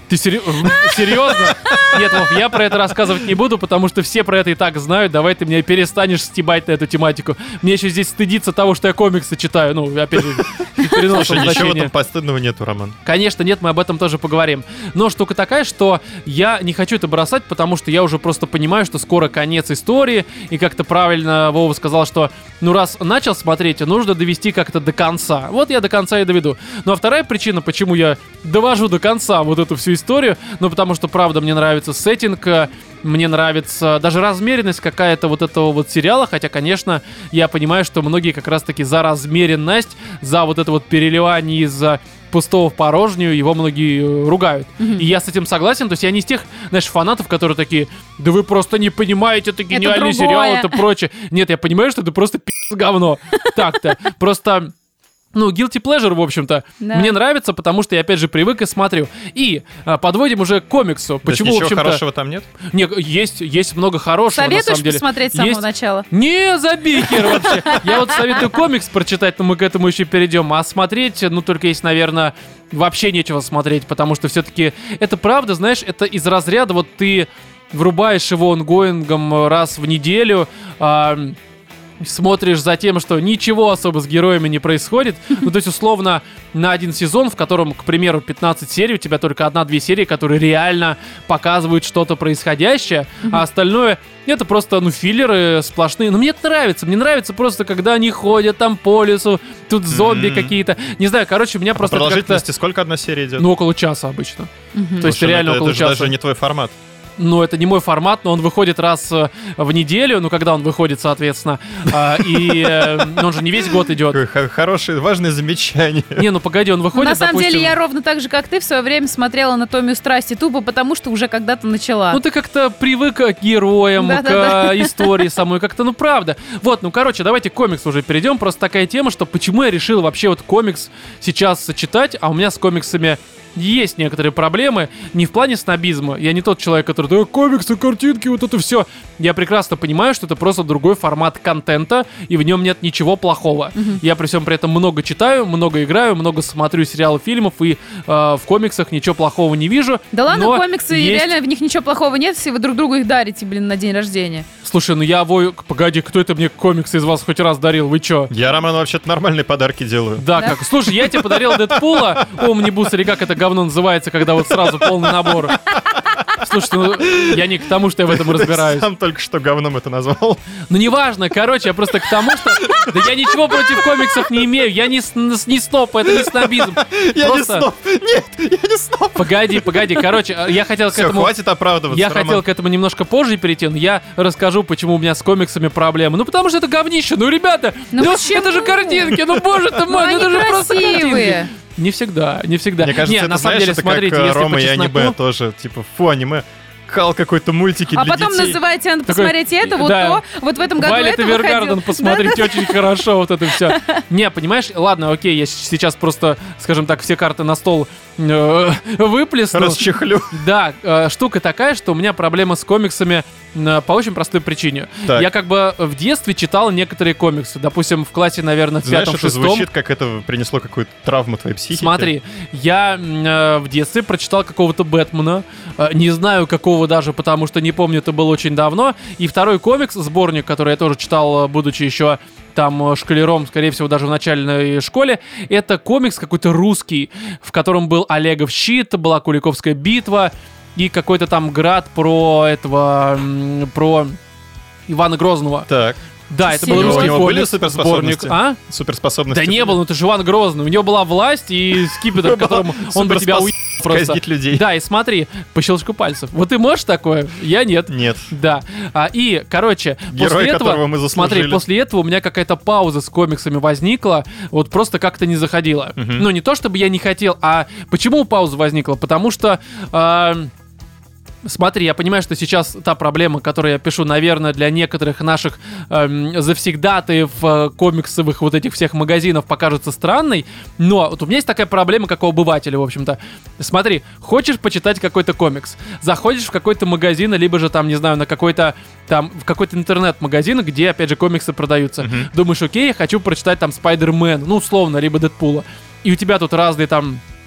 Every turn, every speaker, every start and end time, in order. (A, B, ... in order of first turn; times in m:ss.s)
0:00.1-0:11.9 A
0:00.7-0:02.2 B
0:10.8-0:13.0 B
0:13.0-0:54.7 A
0:49.7-0:50.8 C
0:55.3-1:02.0 A
0:56.8-0:57.1 C
1:01.2-1:02.5 B
1:02.6-1:21.4 A
1:04.3-1:06.1 C
1:07.1-1:08.0 C
1:22.0-1:42.4 A
1:39.9-1:40.5 B
1:41.8-1:43.4 B
1:43.4-1:46.1 A
1:44.7-1:45.0 C
1:45.0-1:46.7 B
1:47.2-1:54.2 A
1:52.2-1:53.2 B
1:54.1-1:56.2 B
1:56.2-1:57.7 A
1:56.9-2:02.2 C
2:02.1-2:31.3 A
2:04.0-2:05.2 C
2:30.1-2:34.4 C
2:34.6-2:38.3 A
2:38.3-2:40.3 B
2:40.2-2:45.6 A
2:41.1-2:42.7 B
2:44.5-2:50.4 B
2:46.3-2:48.8 A
2:50.7-2:57.6 A
2:52.3-2:54.2 B
2:56.1-3:00.0 B
2:59.2-3:01.3 A
3:00.9-3:02.4 B
3:01.9-3:15.1 A
3:07.9-3:09.1 C
3:09.8-3:11.5 C
3:12.8-3:18.6 B
3:17.9-3:22.8 C
3:19.1-3:20.2 A
3:20.8-3:39.6 A
3:23.6-3:24.0 C
3:29.5-3:30.4 B
3:38.8-3:42.1 B
3:41.7-4:04.2 A
4:04.9-4:05.7 A
4:05.7-4:06.0 B
4:06.3-4:08.6 A
4:06.5-4:07.3 C
4:06.6-4:09.8 B
4:09.3-4:30.5 A
4:12.0-4:14.6 B
4:17.9-4:18.3 B
4:20.1-4:21.6 B
4:26.0-4:26.3 B
4:31.4-4:57.2 A
4:52.0-4:52.3 B